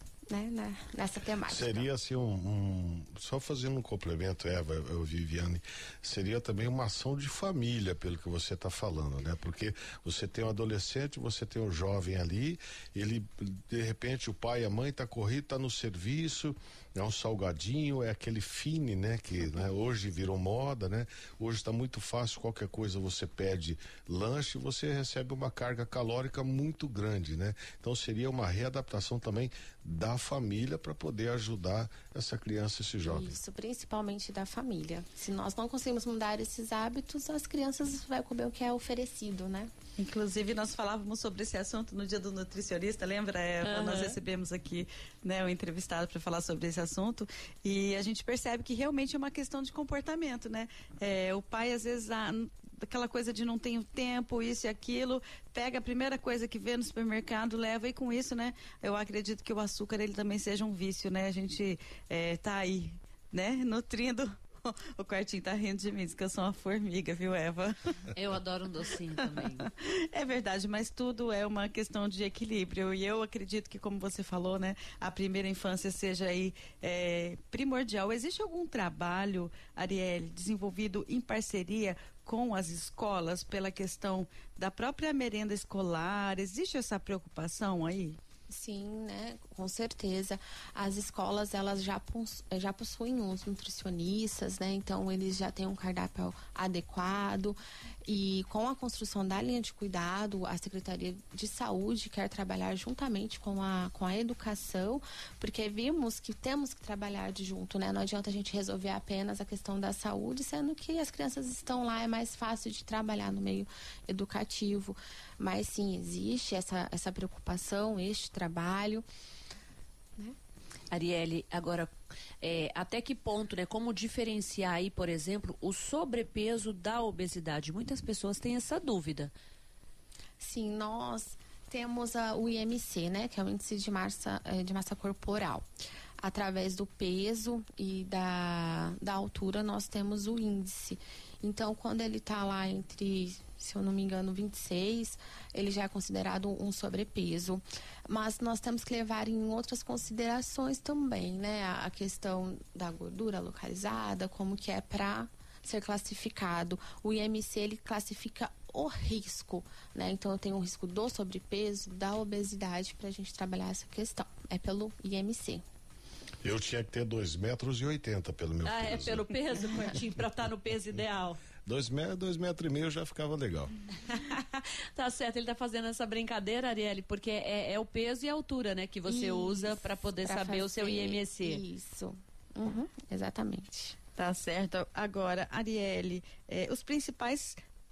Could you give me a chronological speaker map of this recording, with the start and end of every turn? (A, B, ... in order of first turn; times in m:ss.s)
0:00.3-0:01.9 A
0:01.5-0:33.3 B
0:33.0-0:39.7 A
0:40.0-1:07.9 C
0:43.6-0:44.2 D
1:08.1-1:09.7 D
1:09.8-1:28.2 C
1:28.5-1:59.0 A
2:00.9-2:09.3 D
2:10.4-2:15.7 A
2:16.2-2:45.6 A
2:46.4-2:49.3 B
2:48.6-2:51.4 D
2:51.7-2:53.7 B
2:54.0-3:01.6 D
2:59.1-3:04.0 A
3:04.2-3:07.6 C